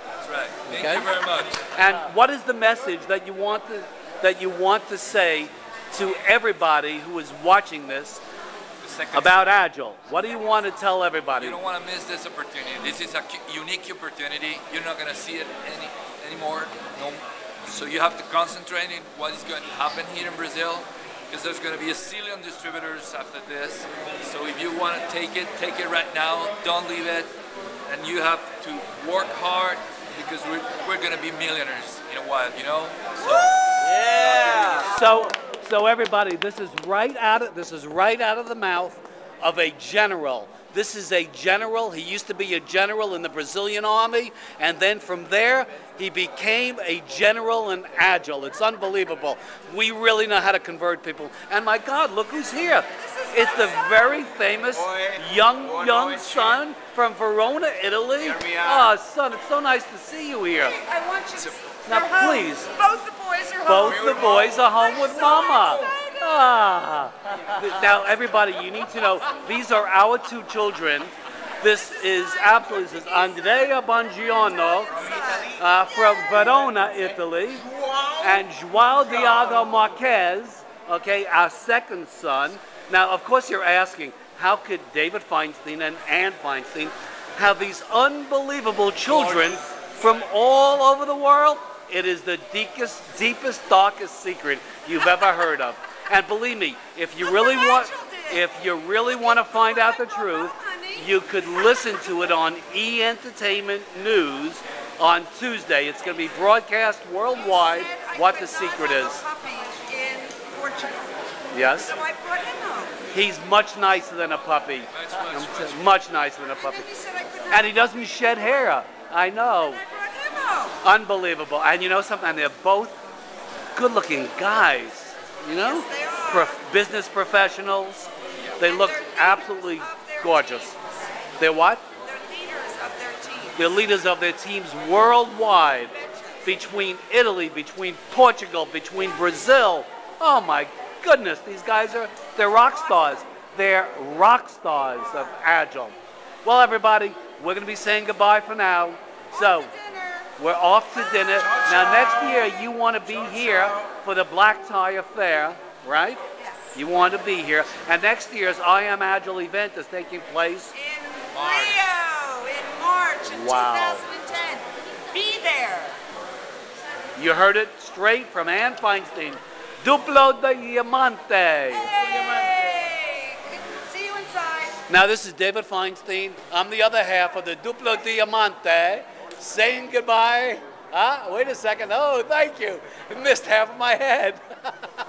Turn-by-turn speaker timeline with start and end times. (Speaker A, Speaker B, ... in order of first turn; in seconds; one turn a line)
Speaker A: 0.2-1.7
Speaker B: 0.7-1.1
Speaker B: 1.7-8.2
Speaker A: 8.8-9.6
Speaker B: 9.1-11.6
Speaker A: 11.3-27.3
Speaker A: 27.9-34.9
Speaker B: 34.8-60.8
Speaker C: 53.0-54.2
Speaker C: 60.6-66.4
Speaker B: 61.9-62.7
Speaker B: 63.6-109.2
Speaker C: 72.0-73.8
Speaker C: 74.4-75.6
Speaker A: 89.1-89.5
Speaker C: 97.2-98.4
Speaker C: 99.3-101.1
Speaker C: 107.3-111.3
Speaker B: 111.5-112.0
Speaker C: 111.8-113.1
Speaker B: 113.1-116.9
Speaker A: 114.9-116.0
Speaker C: 116.5-117.9
Speaker B: 117.5-119.8
Speaker C: 119.6-120.8
Speaker B: 120.8-123.0
Speaker B: 123.7-130.8
Speaker C: 125.5-126.5
Speaker C: 128.6-131.2
Speaker B: 131.4-131.8
Speaker C: 132.0-133.8
Speaker B: 133.6-149.7
Speaker C: 135.9-136.5
Speaker C: 142.7-143.2
Speaker C: 149.3-150.3
Speaker B: 150.4-156.2
Speaker C: 151.3-151.6
Speaker C: 156.4-156.7
Speaker B: 156.7-160.7
Speaker C: 160.7-166.0
Speaker A: 161.3-161.9
Speaker B: 163.2-164.0
Speaker B: 167.2-171.9
Speaker C: 171.7-174.8
Speaker B: 174.9-184.9